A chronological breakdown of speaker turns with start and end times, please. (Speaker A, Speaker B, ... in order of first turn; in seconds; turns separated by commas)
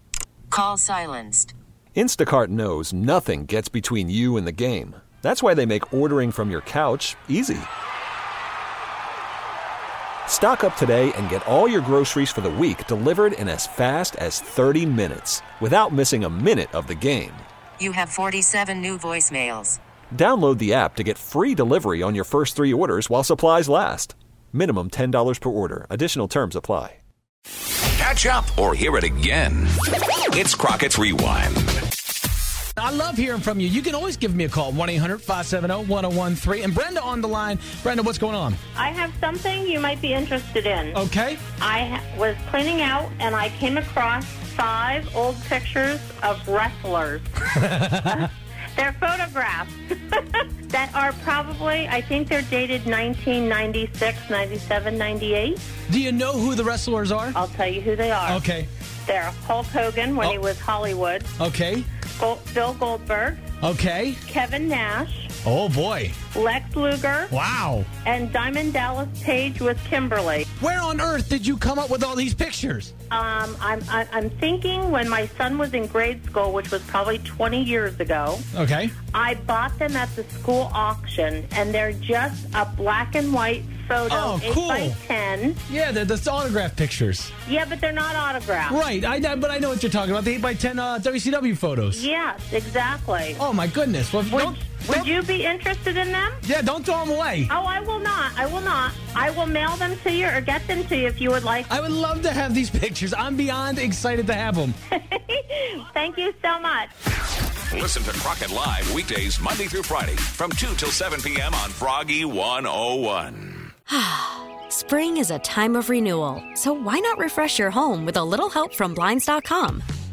Speaker A: 0.5-1.5, Speaker B: 1.9-7.7, Speaker B: 10.2-17.4, Speaker A: 17.8-19.8, Speaker B: 20.1-27.0, Speaker C: 27.9-29.7, Speaker C: 30.3-31.8, Speaker D: 32.8-38.6, Speaker E: 38.7-41.0, Speaker D: 40.9-41.4, Speaker E: 41.6-55.6, Speaker D: 47.5-48.3, Speaker D: 55.9-57.4, Speaker E: 57.3-58.4, Speaker D: 58.2-58.7, Speaker E: 59.0-61.3, Speaker D: 61.4-61.9, Speaker E: 62.2-63.4, Speaker D: 63.6-64.2, Speaker E: 64.2-65.3, Speaker D: 65.4-66.2, Speaker E: 66.3-67.3, Speaker D: 67.3-67.9, Speaker E: 68.0-70.5, Speaker D: 70.6-72.9, Speaker E: 73.1-78.5, Speaker D: 78.5-78.9, Speaker E: 79.1-85.6, Speaker D: 84.1-85.0, Speaker D: 85.7-87.3, Speaker E: 87.5-88.8, Speaker D: 88.7-92.0, Speaker E: 91.9-93.4, Speaker D: 93.4-95.1, Speaker E: 94.3-96.4, Speaker D: 96.4-97.5, Speaker E: 97.5-101.7, Speaker D: 101.7-104.8, Speaker E: 104.9-106.9, Speaker C: 107.7-113.7, Speaker F: 113.9-119.8